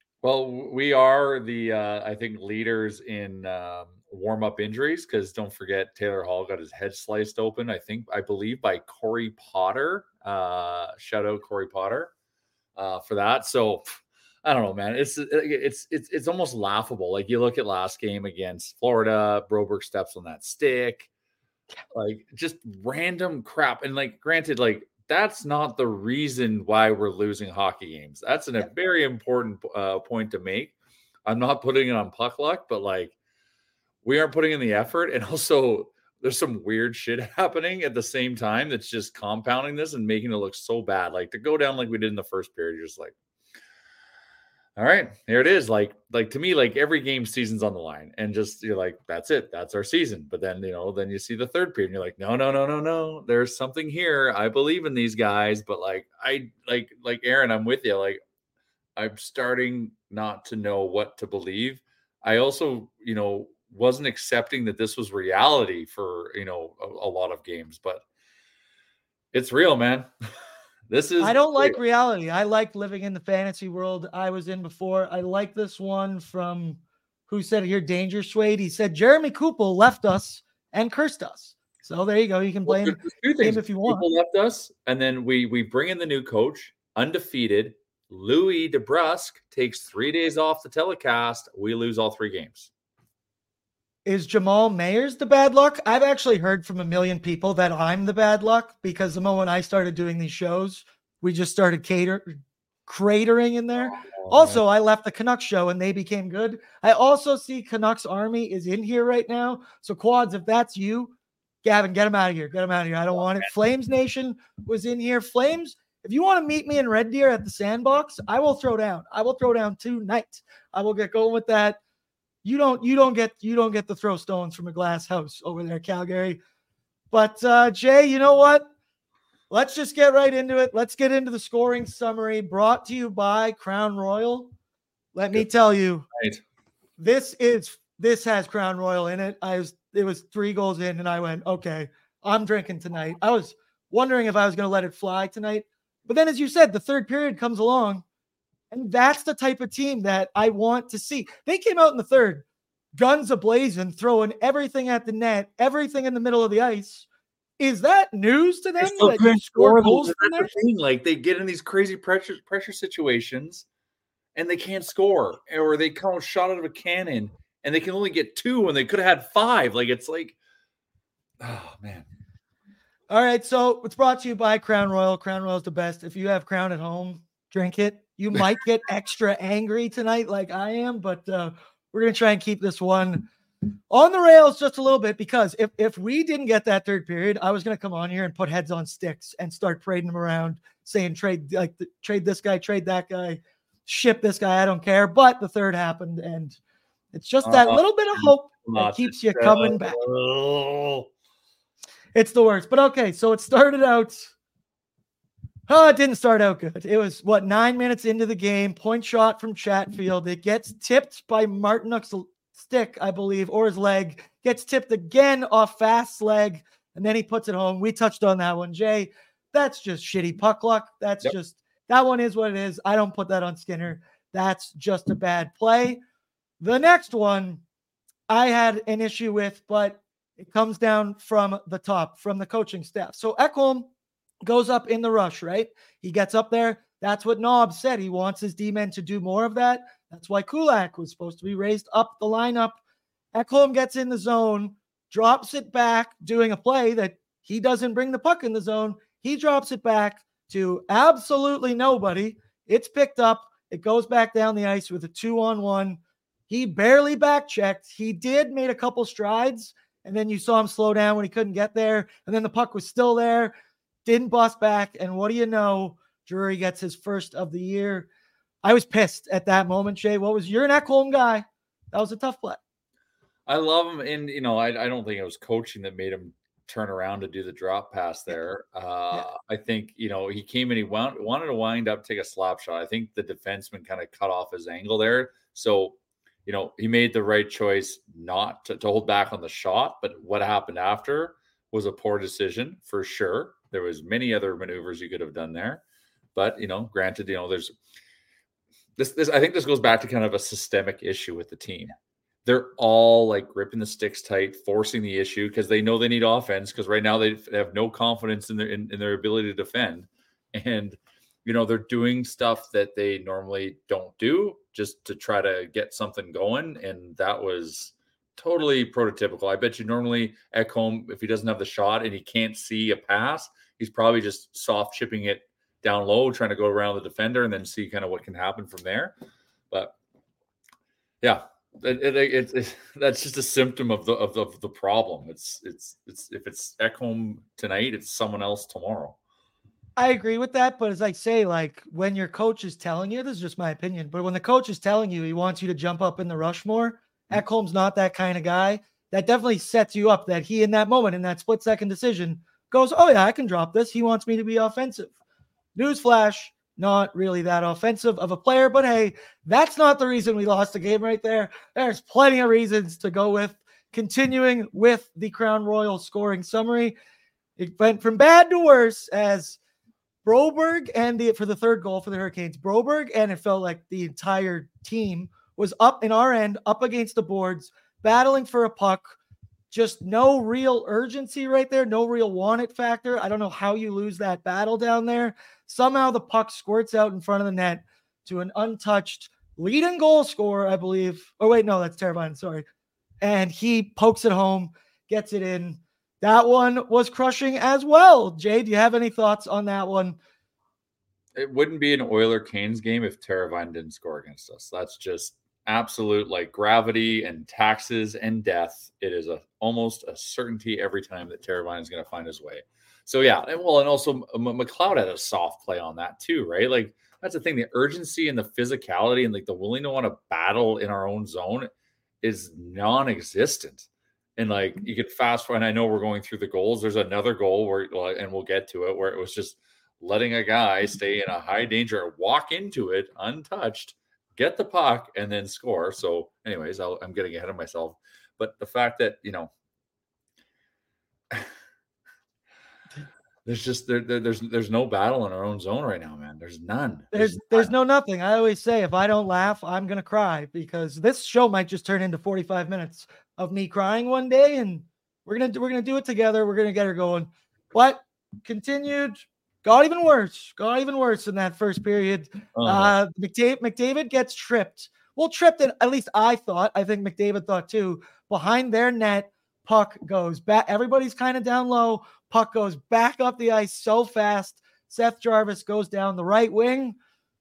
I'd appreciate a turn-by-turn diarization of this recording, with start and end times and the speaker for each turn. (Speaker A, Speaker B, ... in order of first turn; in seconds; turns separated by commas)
Speaker A: 0.2-12.1, Speaker A: 12.8-13.9, Speaker A: 14.4-21.1, Speaker A: 21.9-30.7, Speaker A: 31.3-33.1, Speaker A: 34.0-43.1, Speaker A: 44.8-58.2, Speaker A: 59.0-68.0, Speaker A: 69.3-70.1, Speaker A: 70.9-71.8, Speaker B: 71.2-84.1, Speaker A: 82.7-92.7, Speaker B: 94.0-111.1, Speaker A: 103.9-104.6, Speaker B: 111.6-121.8, Speaker B: 122.4-126.4, Speaker B: 127.1-128.7, Speaker B: 129.5-134.5, Speaker B: 135.2-136.1, Speaker A: 136.1-136.4, Speaker B: 137.0-148.0, Speaker B: 148.7-152.4, Speaker B: 153.0-157.1, Speaker B: 157.6-160.5, Speaker A: 158.8-163.7, Speaker A: 164.3-170.4, Speaker A: 171.4-172.1, Speaker B: 173.1-183.3, Speaker B: 183.9-196.6, Speaker B: 197.1-200.0, Speaker A: 197.4-201.1, Speaker B: 202.2-204.3, Speaker B: 205.7-226.0, Speaker B: 226.6-227.6, Speaker B: 228.3-233.9, Speaker B: 234.4-242.8, Speaker B: 243.3-263.6, Speaker B: 264.1-268.1, Speaker B: 268.6-272.6, Speaker A: 273.5-295.8, Speaker A: 296.4-297.7, Speaker A: 299.0-329.1, Speaker A: 331.2-339.2, Speaker B: 340.0-355.1, Speaker B: 355.8-366.9, Speaker B: 367.6-369.6, Speaker B: 370.2-379.1, Speaker B: 379.7-392.6, Speaker B: 393.2-400.2, Speaker A: 401.4-421.7, Speaker A: 422.2-439.5, Speaker A: 443.5-447.7, Speaker B: 447.1-477.0, Speaker A: 462.6-462.9